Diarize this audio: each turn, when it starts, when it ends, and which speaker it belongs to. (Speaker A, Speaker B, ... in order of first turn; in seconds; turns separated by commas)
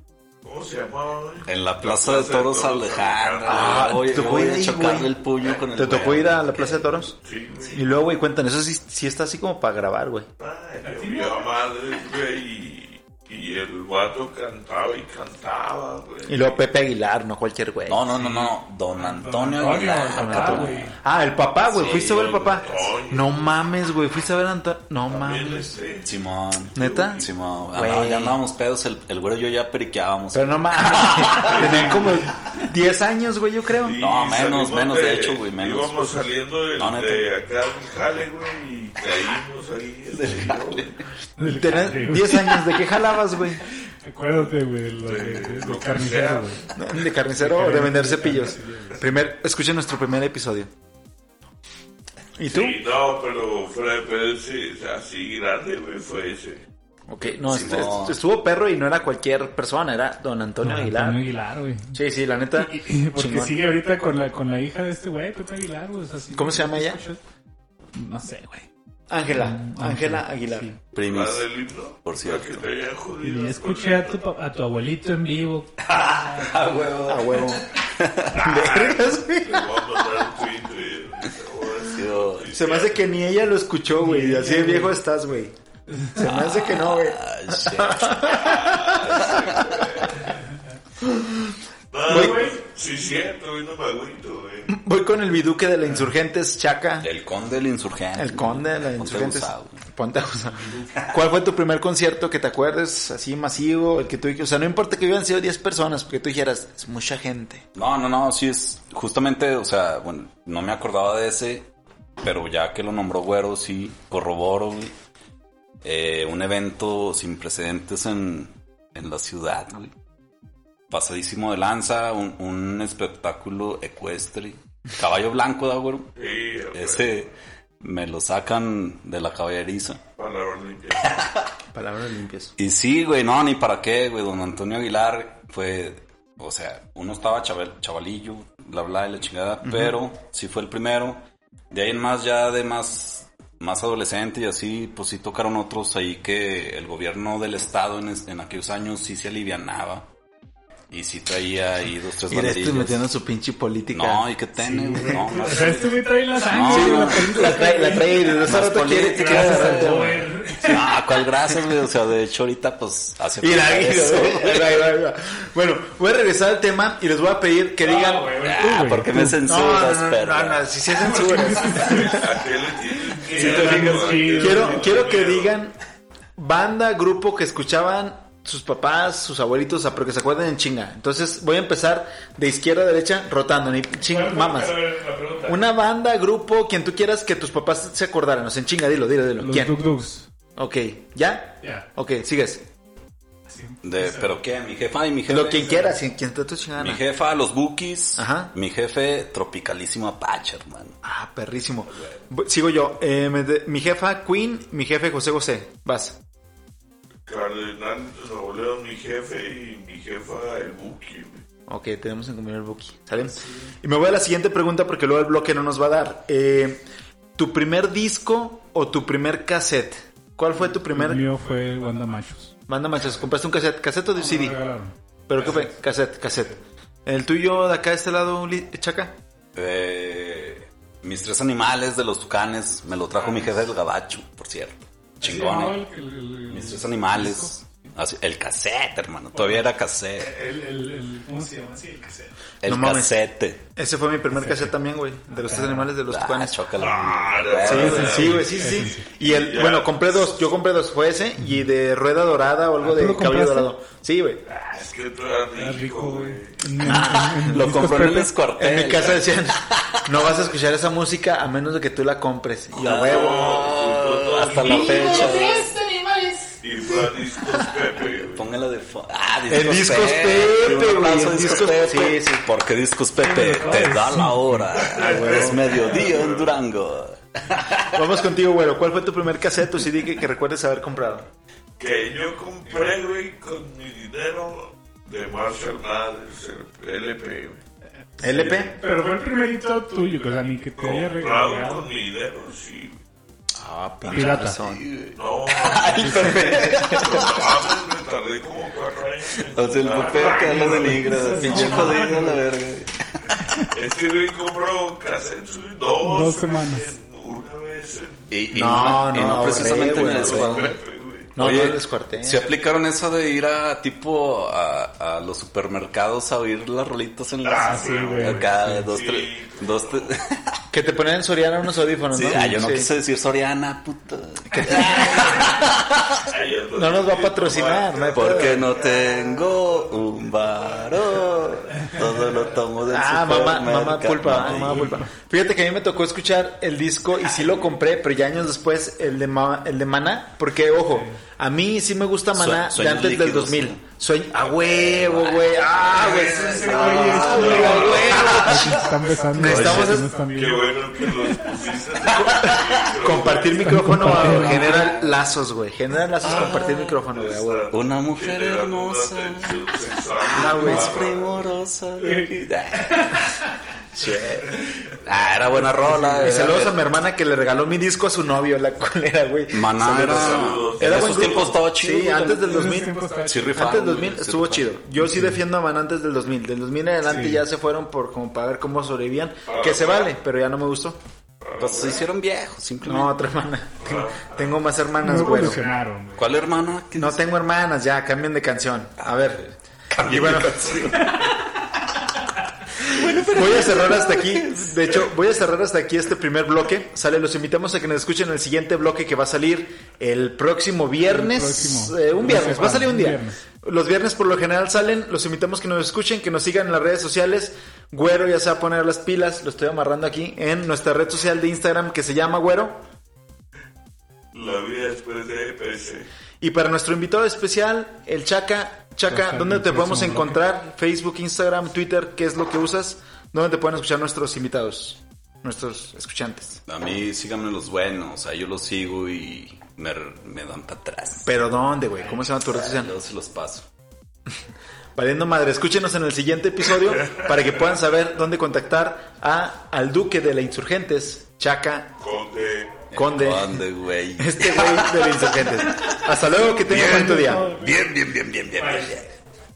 Speaker A: 0.4-4.0, Speaker B: 1.4-7.0, Speaker C: 3.5-7.2, Speaker A: 7.2-7.8, Speaker C: 7.7-10.3, Speaker A: 10.4-16.6, Speaker D: 10.8-11.5, Speaker C: 16.3-18.1, Speaker B: 17.9-20.9, Speaker D: 18.1-20.9, Speaker C: 20.1-25.8, Speaker B: 21.7-22.6, Speaker A: 21.8-23.3, Speaker A: 25.1-26.1, Speaker B: 26.0-31.9, Speaker A: 26.7-27.3, Speaker C: 26.7-28.4, Speaker C: 30.3-34.0, Speaker A: 31.3-32.3, Speaker A: 33.8-41.0, Speaker B: 34.0-35.9, Speaker B: 36.8-37.3, Speaker B: 40.1-40.9, Speaker D: 41.4-42.6, Speaker C: 41.4-43.6, Speaker D: 44.0-46.7, Speaker A: 45.0-46.5, Speaker C: 46.7-50.7, Speaker D: 47.4-49.0, Speaker C: 52.4-52.8, Speaker A: 52.5-56.6, Speaker C: 57.1-61.2, Speaker B: 57.4-58.2, Speaker D: 60.6-62.0, Speaker C: 61.9-63.5, Speaker D: 62.5-67.2, Speaker C: 66.3-67.0, Speaker D: 67.9-68.7, Speaker C: 69.1-70.7, Speaker D: 69.3-70.8, Speaker B: 70.9-71.4, Speaker A: 71.0-74.2, Speaker B: 72.0-72.7, Speaker D: 73.2-76.5, Speaker B: 75.8-78.4, Speaker C: 77.1-77.6, Speaker A: 78.3-83.1, Speaker C: 78.3-79.8, Speaker B: 81.9-82.5, Speaker C: 82.5-85.5, Speaker D: 84.0-85.0, Speaker D: 85.9-86.2, Speaker C: 86.1-89.1, Speaker B: 86.3-90.1, Speaker A: 88.2-90.2, Speaker C: 91.0-91.5, Speaker A: 91.9-94.8, Speaker D: 92.0-92.6, Speaker C: 92.0-92.5, Speaker C: 94.7-97.1, Speaker B: 97.0-99.8, Speaker C: 98.2-107.6, Speaker B: 107.7-111.7, Speaker B: 112.2-114.9, Speaker B: 115.8-119.9, Speaker B: 120.9-126.1, Speaker A: 126.2-127.0, Speaker B: 126.7-130.0, Speaker A: 130.2-131.2, Speaker B: 131.0-131.4, Speaker C: 131.7-132.5, Speaker B: 132.6-150.1, Speaker C: 139.6-140.0, Speaker B: 150.9-153.1, Speaker C: 152.3-155.6, Speaker B: 153.9-157.6, Speaker D: 155.1-158.3, Speaker C: 156.6-160.3, Speaker B: 158.2-164.9, Speaker D: 158.9-160.9, Speaker C: 163.4-168.3, Speaker D: 167.8-169.4, Speaker B: 168.4-170.7, Speaker C: 169.4-172.4, Speaker D: 171.0-172.2, Speaker A: 171.8-175.6, Speaker D: 173.1-175.0, Speaker B: 173.4-173.8, Speaker C: 173.4-175.7, Speaker C: 176.4-184.8, Speaker D: 184.0-185.6, Speaker C: 185.4-189.8, Speaker D: 189.4-190.3, Speaker C: 190.6-192.7, Speaker D: 191.6-191.9, Speaker D: 193.4-194.3, Speaker B: 193.8-195.8, Speaker C: 195.3-197.0, Speaker D: 195.6-195.9, Speaker B: 196.8-201.0, Speaker C: 198.2-198.5, Speaker C: 201.0-206.2, Speaker A: 207.3-211.4, Speaker C: 211.7-216.8, Speaker D: 213.3-213.7, Speaker C: 217.3-221.2, Speaker D: 220.7-222.5, Speaker C: 222.7-224.6, Speaker D: 224.1-225.8, Speaker C: 225.3-229.2, Speaker B: 229.5-235.8, Speaker D: 235.2-237.5, Speaker B: 236.5-240.3, Speaker D: 239.3-239.6, Speaker D: 240.2-242.3, Speaker B: 242.6-243.6, Speaker C: 242.6-243.2, Speaker C: 243.7-246.6, Speaker D: 244.4-244.7, Speaker D: 245.3-245.9, Speaker B: 246.1-248.4, Speaker A: 246.7-250.0, Speaker C: 247.5-254.4, Speaker D: 247.7-249.1, Speaker D: 252.8-253.7, Speaker A: 254.5-256.7, Speaker D: 255.6-258.3, Speaker C: 256.8-257.7, Speaker B: 256.8-260.3, Speaker C: 258.6-263.7, Speaker B: 262.8-265.7, Speaker A: 262.8-265.5, Speaker D: 264.5-266.6, Speaker A: 266.6-268.5, Speaker B: 268.0-278.2, Speaker C: 269.5-272.5, Speaker A: 270.4-272.1, Speaker D: 273.2-275.9, Speaker C: 275.0-275.6, Speaker A: 275.1-276.5, Speaker C: 277.9-281.3, Speaker A: 281.8-287.6, Speaker C: 288.2-288.8, Speaker D: 288.2-291.9, Speaker A: 288.3-288.7, Speaker A: 290.8-293.0, Speaker C: 293.6-294.8, Speaker B: 294.0-297.6, Speaker D: 294.1-294.6, Speaker A: 295.1-301.2, Speaker D: 295.9-296.5, Speaker C: 296.0-297.4, Speaker B: 299.5-303.4, Speaker D: 299.9-302.4, Speaker C: 301.4-302.0, Speaker A: 303.7-311.3, Speaker D: 306.0-306.9, Speaker B: 308.3-310.8, Speaker C: 308.5-310.7, Speaker C: 311.4-312.4, Speaker B: 311.4-320.6, Speaker A: 317.4-320.1, Speaker D: 317.6-318.8, Speaker C: 320.7-322.9, Speaker B: 322.1-326.3, Speaker C: 324.5-325.5, Speaker A: 326.2-331.5, Speaker C: 326.8-328.6, Speaker B: 328.1-335.0, Speaker C: 332.9-350.1, Speaker D: 334.6-335.1, Speaker D: 340.9-341.2, Speaker B: 342.3-343.8, Speaker B: 344.4-350.0, Speaker D: 345.9-350.7, Speaker A: 346.2-348.4, Speaker A: 349.5-353.9, Speaker B: 352.0-352.9, Speaker C: 352.1-357.7, Speaker D: 353.6-354.9, Speaker B: 354.0-355.2, Speaker B: 356.2-357.0, Speaker A: 356.2-361.5, Speaker B: 357.7-359.6, Speaker B: 360.1-363.2, Speaker C: 360.3-360.9, Speaker D: 362.0-363.5, Speaker C: 363.9-364.6, Speaker B: 365.0-366.8, Speaker D: 365.5-366.6, Speaker C: 366.2-373.0, Speaker B: 369.5-374.7, Speaker A: 369.9-371.6, Speaker D: 372.4-373.8, Speaker C: 373.5-381.0, Speaker D: 375.0-375.4, Speaker D: 377.0-377.4, Speaker A: 379.4-380.1, Speaker A: 381.4-382.0, Speaker B: 381.6-383.2, Speaker C: 382.8-385.6, Speaker A: 383.8-384.6, Speaker D: 385.0-386.2, Speaker B: 386.2-387.2, Speaker C: 386.9-391.1, Speaker B: 389.0-391.3, Speaker B: 392.8-395.0, Speaker C: 392.9-412.8, Speaker D: 401.0-403.4, Speaker A: 414.3-416.1, Speaker C: 416.4-426.6, Speaker D: 419.1-420.4, Speaker B: 426.7-431.3, Speaker C: 431.2-432.9, Speaker B: 432.3-433.7, Speaker C: 434.9-441.9, Speaker A: 442.0-442.8, Speaker C: 442.9-443.6, Speaker B: 442.9-445.9, Speaker C: 444.2-447.5, Speaker B: 446.6-449.1, Speaker D: 446.7-447.8, Speaker D: 448.6-449.0